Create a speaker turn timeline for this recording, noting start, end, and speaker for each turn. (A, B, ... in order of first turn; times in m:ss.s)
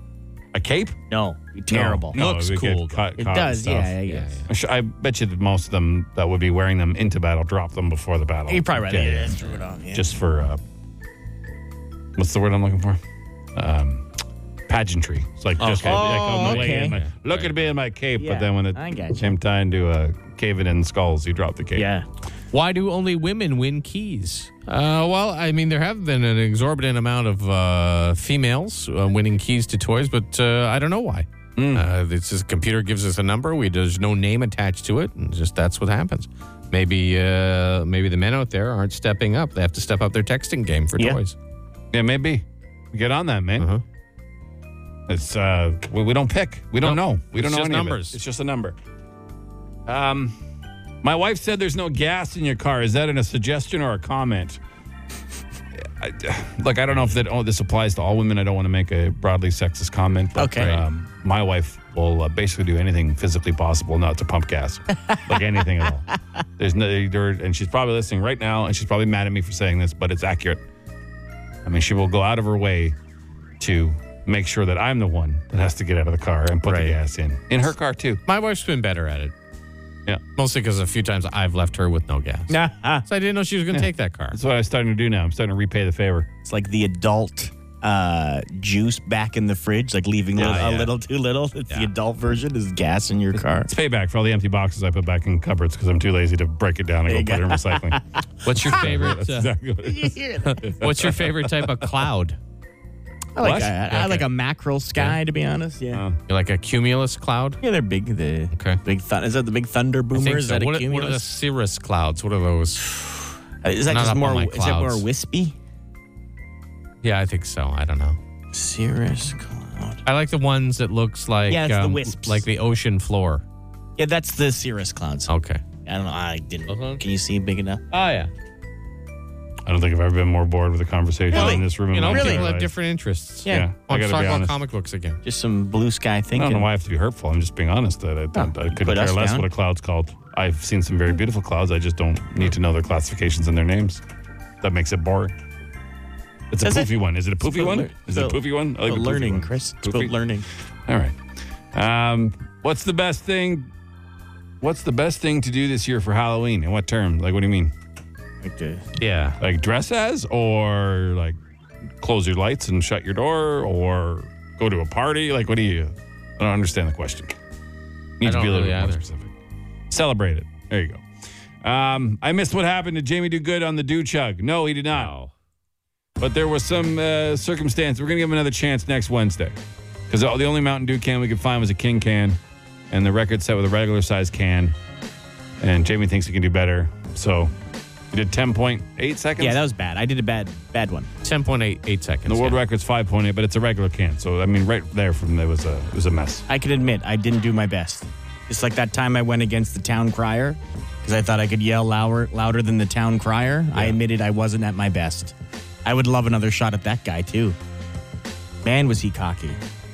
0:00.5-0:01.0 A
0:01.1-0:02.2 B
0:01.7-0:03.9 A
0:02.1-0:03.1 C
0:03.2-0:04.4 B
0:04.0-0:04.5 C
0:04.5-0:09.4 A
0:08.5-0:10.0 B
0:09.3-0:09.6 C
0:09.9-0:10.6 A
0:12.2-0:13.0 A
0:13.5-0:14.1 A
0:14.7-0:21.9 A
0:15.6-0:17.6 C
0:15.8-0:17.0 B
0:18.2-0:19.3 B
0:21.7-0:22.0 B
0:22.5-0:41.4 C
0:31.6-0:31.9 A
0:41.9-0:43.7 A
0:45.1-0:48.8 A
0:46.8-0:48.2 C
0:49.8-0:50.4 A
0:51.0-0:54.6 A
0:55.8-1:06.0 A
1:00.4-1:00.7 B
1:00.5-1:00.8 C
1:06.6-1:10.6 A
1:11.6-1:13.0 A
1:13.6-1:18.2 A
1:16.7-1:16.9 C
1:18.3-1:19.3 C
1:20.4-1:22.5 C
1:22.5-1:23.0 B
1:23.0-1:24.4 C
1:23.7-1:26.3 A
1:26.4-1:33.7 B
1:30.4-1:30.8 A
1:30.4-1:30.9 C
1:33.3-1:38.0 A
1:37.1-1:39.1 B
1:38.4-1:39.5 C
1:38.5-1:41.7 A
1:39.8-1:40.7 B
1:40.4-1:42.4 C
1:43.4-1:46.0 B
1:43.4-1:43.8 A
1:43.8-1:44.3 C
1:45.9-1:46.2 A
1:46.3-1:47.6 C
1:47.6-1:51.2 B
1:48.5-1:48.8 C
1:50.1-1:53.0 C
1:53.6-1:55.6 B
1:53.9-1:55.0 C
1:57.0-1:58.2 C
1:58.5-2:00.0 B
2:00.0-2:03.4 C
2:01.5-2:02.4 B
2:04.0-2:05.3 B
2:05.3-2:05.6 C
2:05.8-2:07.8 B
2:06.7-2:07.0 C
2:07.9-2:08.3 C
2:09.6-2:12.7 A
2:11.3-2:12.5 B
2:11.3-2:15.2 C
2:13.4-2:14.6 A
2:15.2-2:16.6 B
2:16.3-2:24.0 A
2:18.3-2:19.5 B
2:24.6-2:25.3 A
2:26.5-2:30.1 A
2:26.6-2:30.5 B
2:30.8-2:31.2 A
2:31.7-2:33.7 A
2:34.6-2:37.7 A
2:38.4-2:38.8 B
2:39.0-2:39.4 C
2:39.4-2:41.4 A
2:42.0-2:47.3 A
2:48.2-2:49.3 A
2:48.2-2:49.0 C
2:49.9-2:51.0 A
2:51.6-2:55.1 A
2:54.9-2:55.3 C
2:56.2-2:59.6 A
3:00.1-3:02.4 A
3:02.9-3:04.7 A
3:05.6-3:07.5 A
3:08.1-3:09.6 A
3:09.4-3:11.1 B
3:11.2-3:12.6 C
3:12.2-3:16.5 A
3:16.5-3:27.6 B
3:23.7-3:24.0 A
3:28.6-3:29.6 B